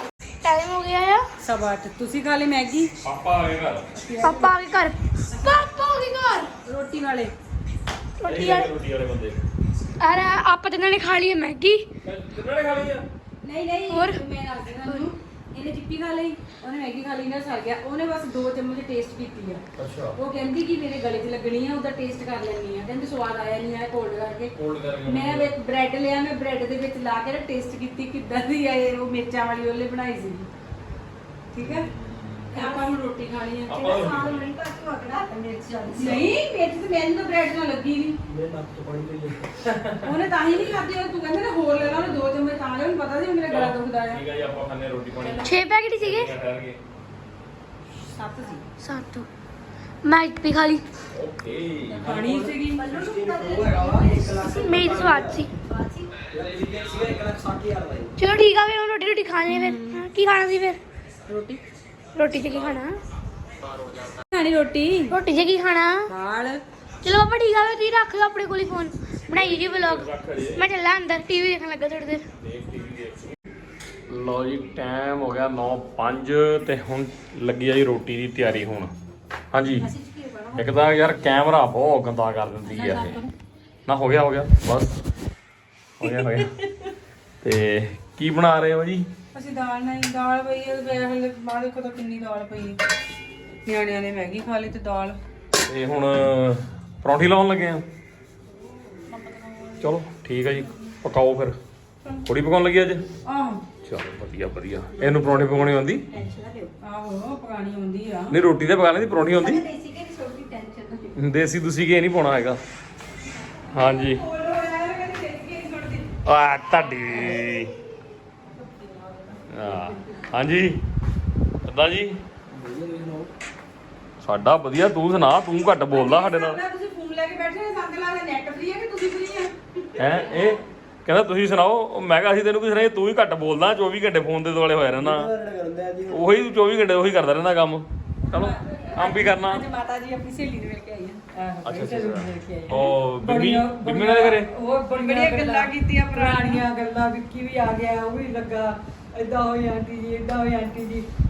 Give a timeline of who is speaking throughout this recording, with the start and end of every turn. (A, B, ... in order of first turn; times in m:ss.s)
0:00.4-0:01.2 A
0:01.4-0:02.9 B
0:03.0-0:04.0 C
0:04.0-0:04.5 B
0:04.2-0:06.5 A
0:05.3-0:05.7 B
0:06.6-0:07.3 B
0:08.2-0:08.7 A
0:08.2-0:09.4 C
0:10.0-0:11.8 A
0:12.0-0:13.0 C
0:13.4-0:19.6 B
0:13.9-0:14.2 A
0:19.8-0:20.2 C
0:20.2-0:24.5 B
0:24.6-0:25.6 C
0:25.0-0:30.5 B
0:31.5-0:31.9 B
0:31.6-0:32.6 C
0:32.5-0:34.4 B
0:33.7-0:34.5 C
0:34.2-0:36.1 D
0:35.9-0:38.2 B
0:38.3-0:39.5 E
0:39.6-0:40.6 C
0:40.0-0:44.2 B
0:41.8-0:42.2 C
0:43.5-0:46.8 C
0:45.4-0:46.3 A
0:48.2-0:48.6 B
0:48.8-0:49.3 A
0:50.0-0:50.8 A
0:51.1-0:52.3 C
0:52.0-0:52.8 F
0:52.0-0:55.4 E
0:52.7-0:55.1 D
0:54.4-0:55.5 A
0:55.7-0:56.1 D
0:56.3-0:58.2 E
0:58.2-1:00.8 A
0:59.5-1:00.0 B
1:01.3-1:01.6 B
1:02.2-1:03.0 A
1:03.7-1:04.0 C
1:04.3-1:05.2 B
1:05.1-1:06.1 A
1:06.1-1:06.6 B
1:07.0-1:12.2 A
1:09.3-1:10.7 C
1:12.4-1:13.4 C
1:14.1-1:18.9 C
1:19.5-1:19.9 C
1:19.9-1:20.6 D
1:20.6-1:23.2 C
1:22.7-1:23.3 B
1:23.9-1:25.0 C
1:26.0-1:26.5 C
1:27.4-1:29.1 C
1:29.3-1:32.8 B
1:33.7-1:35.2 B
1:35.6-1:37.8 C
1:39.1-1:40.0 B
1:39.8-1:41.6 C
1:42.2-1:43.0 C
1:43.3-1:43.6 B
1:43.8-1:46.0 C
1:46.1-1:46.7 D
1:46.8-1:48.4 B
1:48.3-1:49.6 C
1:49.4-1:51.2 D
1:51.2-1:52.6 C
1:53.7-1:54.2 C
1:53.8-1:56.1 B
1:56.2-1:57.7 C
1:59.5-2:00.8 C
2:01.6-2:02.2 C
2:02.5-2:03.3 E
2:04.2-2:06.6 C
2:05.9-2:10.0 B
2:10.0-2:15.3 C
2:15.0-2:16.2 E
2:16.1-2:19.6 C
2:18.3-2:21.2 B
2:21.3-2:31.1 F
2:21.6-2:24.5 C
2:24.9-2:26.6 B